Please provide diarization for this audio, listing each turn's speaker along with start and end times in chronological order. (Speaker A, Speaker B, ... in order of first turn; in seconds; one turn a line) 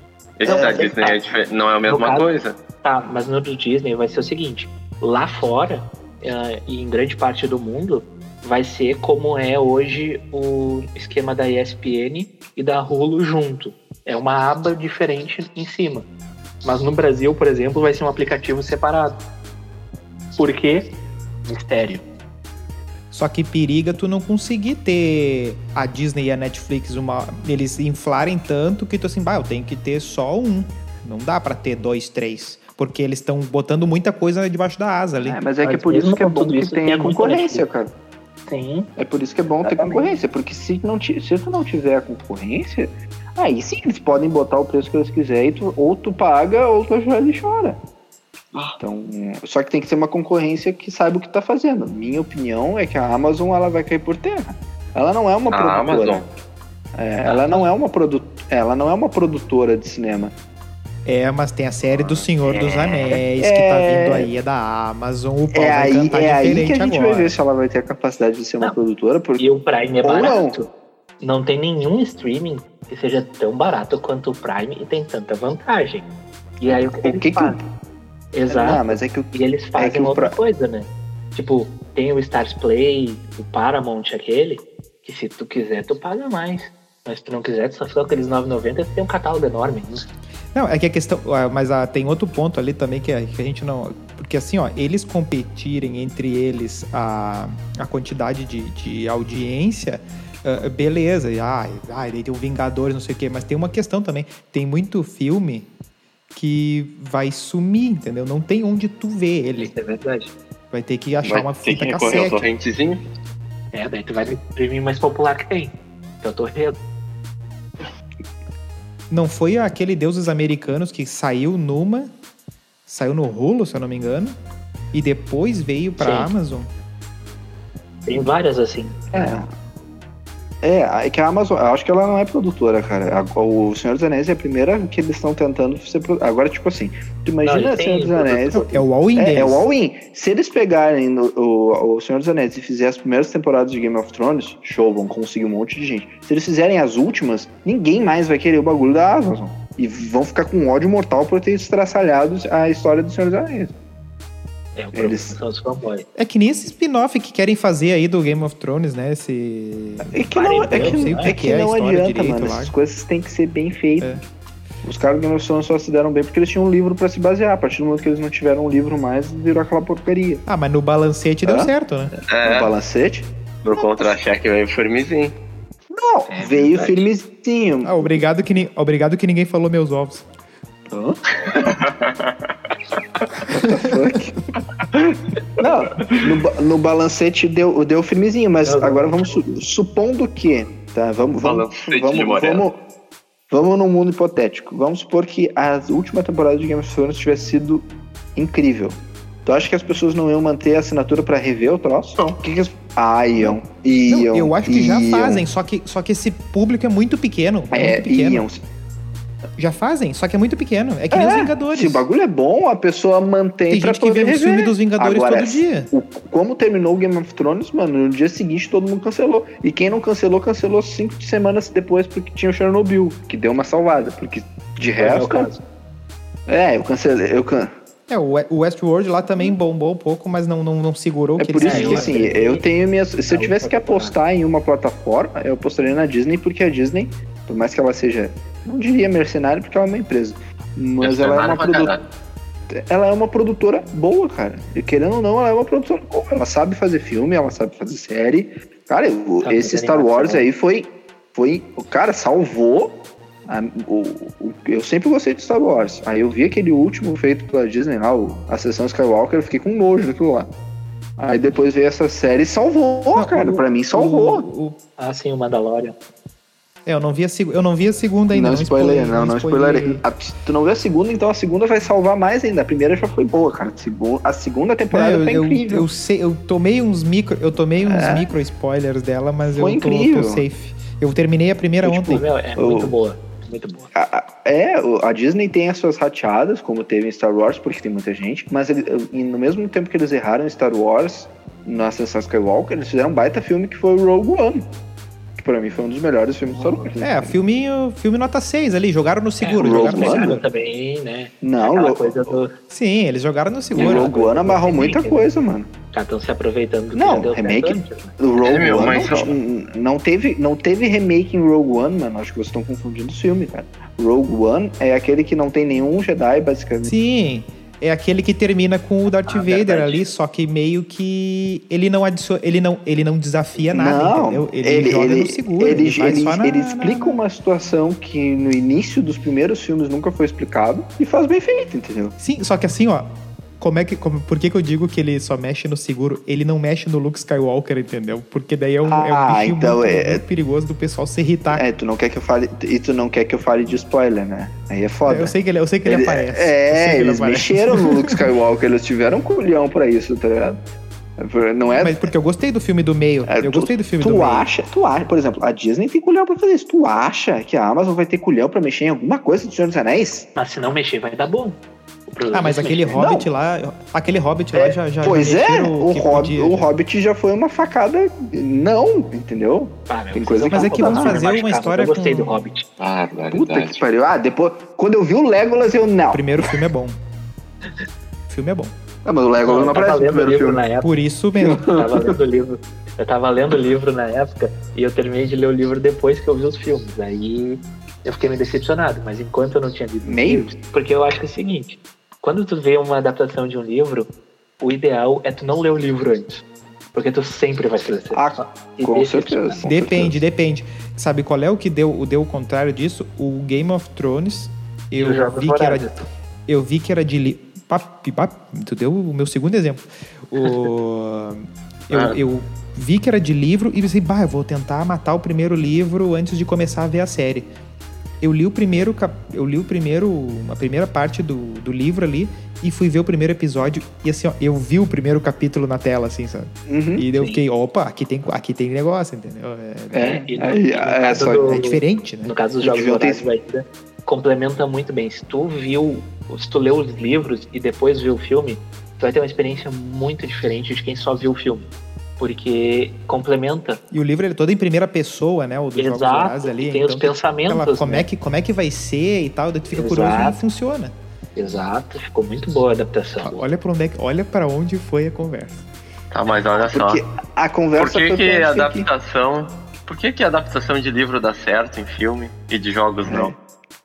Speaker A: 0.4-2.6
Speaker B: 0.4-1.0
Speaker C: 0.4-1.2
Speaker C: 1.9-2.3
Speaker C: 2.8-16.1
Speaker C: 16.6-19.2
Speaker C: 20.4-20.9
Speaker C: 21.4-22.0
Speaker D: 23.1-35.4
Speaker B: 35.2-37.9
Speaker C: 35.6-37.6
Speaker C: 38.5-38.9
Speaker B: 39.0-47.8
Speaker C: 39.6-40.1
Speaker B: 48.8-56.2
Speaker A: 55.5-56.3
Speaker B: 57.0-60.3
Speaker C: 57.2-57.7
Speaker D: 61.0-67.3
Speaker A: 61.9-63.2
Speaker B: 63.4-64.3
Speaker B: 65.5-69.4
Speaker C: 69.4-70.7
Speaker B: 70.0-70.6
Speaker C: 71.2-76.0
Speaker C: 76.6-77.6
Speaker B: 76.7-77.7
Speaker C: 78.3-90.0
Speaker B: 78.5-80.3
Speaker D: 90.5-105.7
Speaker D: 106.3-109.7
Speaker C: 109.6-110.3
Speaker D: 110.7-112.4
Speaker A: 111.2-113.0
Speaker C: 113.7-116.8
Speaker D: 119.1-122.1
Speaker D: 122.9-124.3
Speaker D: 124.9-126.7
Speaker C: 126.0-126.3
Speaker C: 128.1-129.4
Speaker B: 129.1-129.5
Speaker B: 130.6-153.7
Speaker C: 137.4-138.8
Speaker D: 138.7-139.7
Speaker C: 154.8-156.1
Speaker B: 154.9-155.4
Speaker D: 156.2-162.7
Speaker B: 160.0-164.2
Speaker C: 160.3-161.3
Speaker B: 164.8-170.4
Speaker D: 170.4-172.1
Speaker B: 171.4-171.7
Speaker A: 172.3-172.7
Speaker B: 172.4-174.1
Speaker A: 173.6-175.3
Speaker B: 175.9-178.2
Speaker C: 176.3-177.0
Speaker D: 177.8-180.2
Speaker A: 181.4-182.5
Speaker B: 183.5-184.4
Speaker B: 185.6-192.8
Speaker C: 188.6-189.4
Speaker A: 191.4-192.6
Speaker B: 193.5-205.4
Speaker D: 203.3-208.5
Speaker B: 207.7-208.6
Speaker D: 209.6-212.0
Speaker B: 211.1-225.5
Speaker D: 213.7-215.9
Speaker C: 225.0-225.6
Speaker B: 226.5-227.7
Speaker D: 228.1-232.2
Speaker B: 231.4-241.9
Speaker C: 231.6-232.7
Speaker C: 233.3-234.2
Speaker A: 241.0-242.0
Speaker B: 242.7-260.5
Speaker C: 249.4-250.5
Speaker B: 261.2-264.4
Speaker D: 263.1-264.8
Speaker C: 265.0-265.9
Speaker D: 266.9-270.0
Speaker B: 268.3-275.9
Speaker D: 274.9-282.2
Speaker B: 277.8-278.3
Speaker B: 279.5-280.4
Speaker B: 281.9-282.9
Speaker C: 281.9-283.9
Speaker B: 283.9-294.7
Speaker B: 295.4-297.4
Speaker C: 296.6-296.9
Speaker D: 297.0-300.4
Speaker C: 299.4-302.5
Speaker B: 299.6-300.4
Speaker B: 301.4-302.4
Speaker D: 302.7-304.1
Speaker C: 303.7-305.3
Speaker B: 303.7-305.7
Speaker C: 305.9-308.1
Speaker B: 306.9-316.9
Speaker A: 308.4-309.4
Speaker D: 316.8-327.2
Speaker C: 319.2-320.1
Speaker B: 323.7-332.1
Speaker D: 332.2-341.6
Speaker B: 338.8-340.2
Speaker B: 341.5-345.3
Speaker D: 345.1-348.1
Speaker B: 345.8-350.6
Speaker B: 351.2-352.0
Speaker D: 351.8-354.5
Speaker B: 353.2-360.2
Speaker C: 360.4-361.6
Speaker C: 362.1-363.0
Speaker D: 362.3-366.7
Speaker B: 362.9-363.3
Speaker B: 364.5-371.2
Speaker C: 369.9-372.6
Speaker D: 370.5-372.5
Speaker A: 372.8-373.8
Speaker B: 373.3-376.2
Speaker D: 376.1-377.0
Speaker D: 378.3-378.7
Speaker B: 379.0-380.6
Speaker C: 379.4-380.9
Speaker D: 380.8-381.7
Speaker B: 381.4-382.1
Speaker C: 381.6-394.1
Speaker B: 390.0-390.5
Speaker C: 394.6-399.6
Speaker B: 398.1-400.2
Speaker D: 399.6-405.9
Speaker C: 405.0-406.1
Speaker D: 406.5-417.5
Speaker A: 411.9-412.2
Speaker D: 418.2-430.3
Speaker B: 426.7-427.1
Speaker C: 427.1-427.4
Speaker B: 429.9-431.5
Speaker C: 430.0-441.7
Speaker D: 431.1-432.3
Speaker B: 432.6-433.2
Speaker C: 442.2-443.8
Speaker D: 443.9-450.9
Speaker C: 445.8-448.1
Speaker C: 449.7-450.4
Speaker C: 451.4-453.4
Speaker D: 453.2-455.6
Speaker A: 456.1-457.0
Speaker B: 456.6-458.9
Speaker A: 457.8-463.3
Speaker B: 463.1-463.3